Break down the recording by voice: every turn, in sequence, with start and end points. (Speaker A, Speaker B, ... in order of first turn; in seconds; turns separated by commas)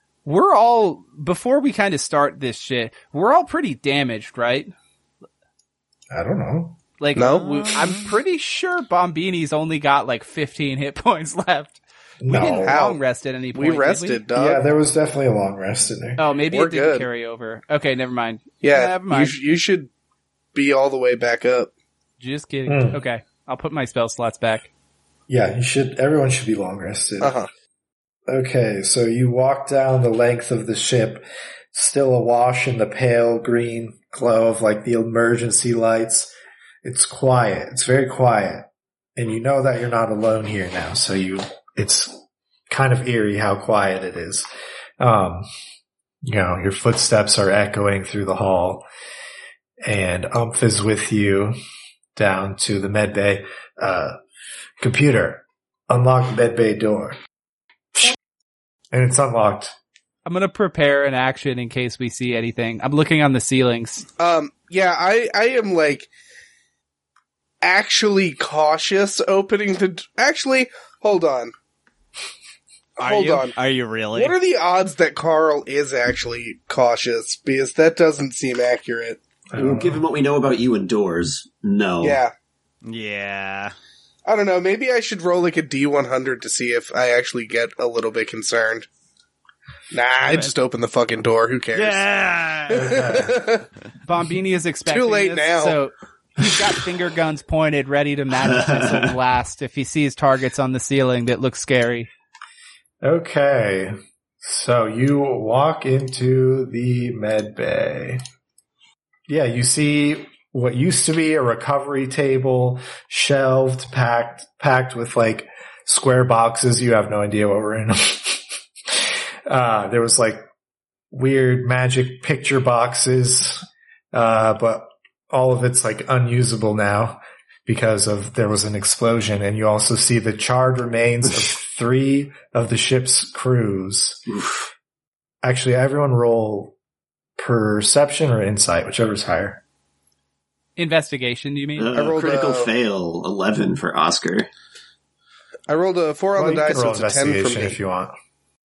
Speaker A: 0.2-4.7, Speaker B: 6.1-6.8, Speaker A: 7.0-14.2, Speaker C: 7.2-8.0, Speaker D: 7.3-8.1, Speaker B: 12.2-12.8, Speaker C: 12.7-13.0, Speaker C: 13.5-14.6, Speaker B: 14.3-16.2, Speaker A: 16.2-19.4, Speaker C: 16.5-17.1, Speaker C: 18.6-19.9, Speaker C: 20.6-21.7, Speaker A: 22.2-24.7, Speaker B: 22.7-23.0, Speaker B: 25.3-27.3, Speaker C: 27.2-27.5, Speaker B: 28.3-44.5, Speaker B: 45.0-45.5, Speaker B: 46.2-48.9, Speaker B: 49.8-51.5, Speaker B: 52.2-54.2, Speaker B: 54.8-57.2, Speaker B: 58.9-59.7, Speaker A: 60.3-64.0, Speaker C: 64.2-66.1, Speaker C: 67.6-71.5, Speaker C: 73.0-73.6, Speaker D: 73.0-74.3, Speaker C: 74.1-79.2, Speaker B: 79.5-80.0, Speaker E: 79.6-82.2, Speaker C: 82.0-82.3, Speaker D: 82.8-83.7, Speaker C: 84.3-88.9, Speaker C: 89.9-92.1, Speaker D: 91.8-93.3, Speaker C: 92.7-93.7, Speaker B: 92.7-93.4, Speaker A: 94.0-102.1, Speaker C: 94.9-95.8, Speaker E: 98.5-99.1, Speaker B: 103.0-108.2, Speaker B: 109.3-120.5, Speaker B: 121.1-134.3, Speaker E: 134.3-134.6, Speaker B: 135.4-136.8, Speaker B: 137.4-139.6, Speaker A: 140.8-141.9, Speaker E: 141.8-144.5, Speaker C: 141.9-142.7, Speaker C: 145.7-147.8, Speaker B: 146.4-148.1